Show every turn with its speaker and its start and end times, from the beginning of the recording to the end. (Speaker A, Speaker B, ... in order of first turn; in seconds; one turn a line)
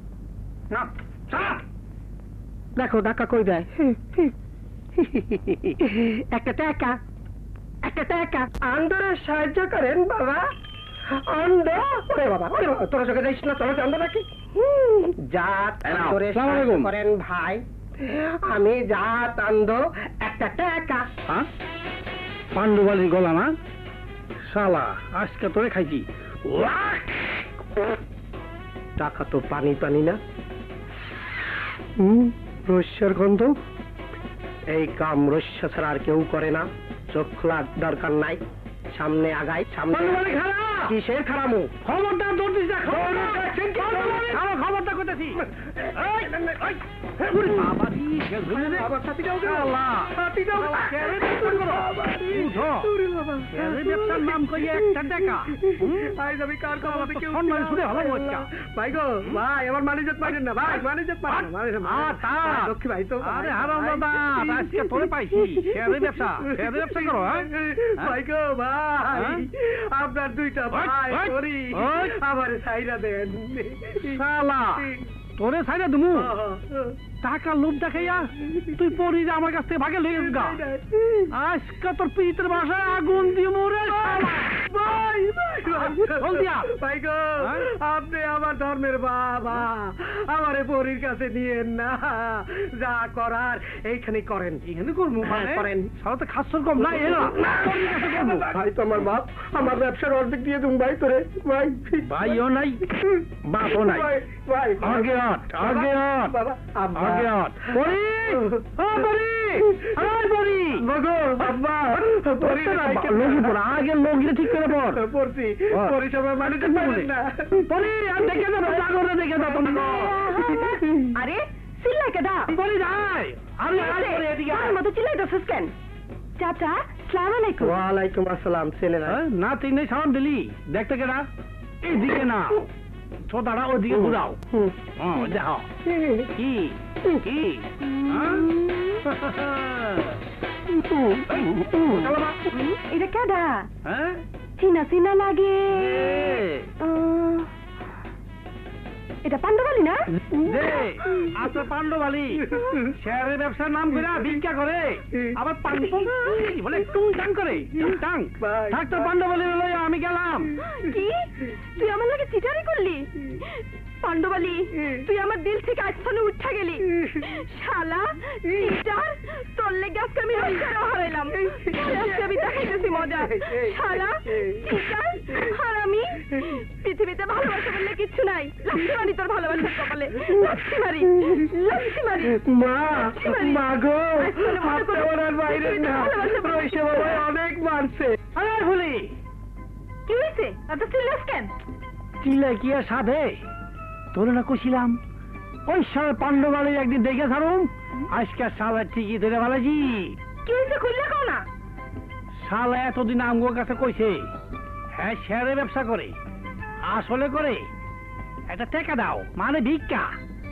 Speaker A: 0.7-1.6
Speaker B: 2.8-4.3
Speaker B: 5.0-7.0
Speaker B: 7.8-10.4
Speaker B: 11.2-21.0
Speaker A: 15.8-16.9
Speaker A: 22.5-23.5
Speaker A: 24.4-27.4
Speaker B: 29.0-30.2
Speaker B: 32.0-33.5
Speaker B: 34.7-38.4
Speaker B: 38.9-40.2
Speaker A: 39.9-40.9
Speaker B: 40.9-41.7
Speaker A: 41.8-48.9
Speaker B: 42.8-44.4
Speaker B: 45.5-46.6
Speaker B: 47.3-47.7
Speaker B: 48.5-74.2
Speaker A: 49.4-52.9
Speaker A: 53.5-56.2
Speaker A: 56.7-58.5
Speaker A: 60.2-60.8
Speaker A: 61.3-67.5
Speaker A: 69.1-69.4
Speaker A: 70.7-72.2
Speaker A: 74.0-74.8
Speaker B: 74.8-75.0
Speaker A: 75.4-76.3
Speaker B: 76.1-77.0
Speaker A: 77.2-80.6
Speaker B: 78.4-78.7
Speaker B: 80.1-81.3
Speaker A: 81.3-84.6
Speaker B: 83.8-94.6
Speaker A: 85.7-86.7
Speaker A: 87.4-87.7
Speaker A: 94.6-98.5
Speaker B: 95.2-95.9
Speaker B: 96.8-102.3
Speaker A: 102.0-102.8
Speaker B: 102.9-107.8
Speaker A: 103.5-104.1
Speaker A: 104.8-106.3
Speaker A: 106.9-110.8
Speaker B: 108.3-108.6
Speaker B: 110.8-113.6
Speaker A: 112.4-115.0
Speaker B: 114.5-117.7
Speaker A: 115.7-120.3
Speaker B: 119.3-121.1
Speaker C: 119.7-122.5
Speaker A: 122.5-124.8
Speaker C: 123.7-125.7
Speaker C: 126.4-127.8
Speaker B: 127.6-129.2
Speaker A: 129.1-131.2
Speaker A: 131.8-132.7
Speaker A: 133.3-134.4
Speaker B: 133.9-134.7
Speaker A: 135.0-135.7
Speaker B: 135.8-136.3
Speaker A: 136.3-138.5
Speaker C: 137.8-139.0
Speaker A: 139.0-140.2
Speaker B: 140.7-142.2
Speaker A: 141.3-142.5
Speaker C: 142.5-143.7
Speaker A: 143.8-144.2
Speaker C: 144.6-147.5
Speaker A: 145.7-146.7
Speaker C: 149.2-150.1
Speaker A: 150.3-160.5
Speaker B: 150.3-151.5
Speaker B: 152.4-152.9
Speaker B: 155.1-156.8
Speaker B: 157.8-159.1
Speaker C: 160.7-182.4
Speaker B: 164.8-165.0
Speaker B: 166.9-167.2
Speaker B: 171.3-175.6
Speaker B: 180.3-181.4
Speaker B: 182.3-188.2
Speaker C: 182.9-187.2
Speaker A: 188.3-189.1
Speaker C: 190.1-191.5
Speaker A: 192.2-193.4
Speaker A: 194.1-195.0
Speaker A: 195.7-200.2
Speaker C: 200.4-201.4
Speaker A: 202.4-204.2
Speaker A: 204.9-206.1
Speaker A: 206.8-207.6
Speaker A: 208.5-210.1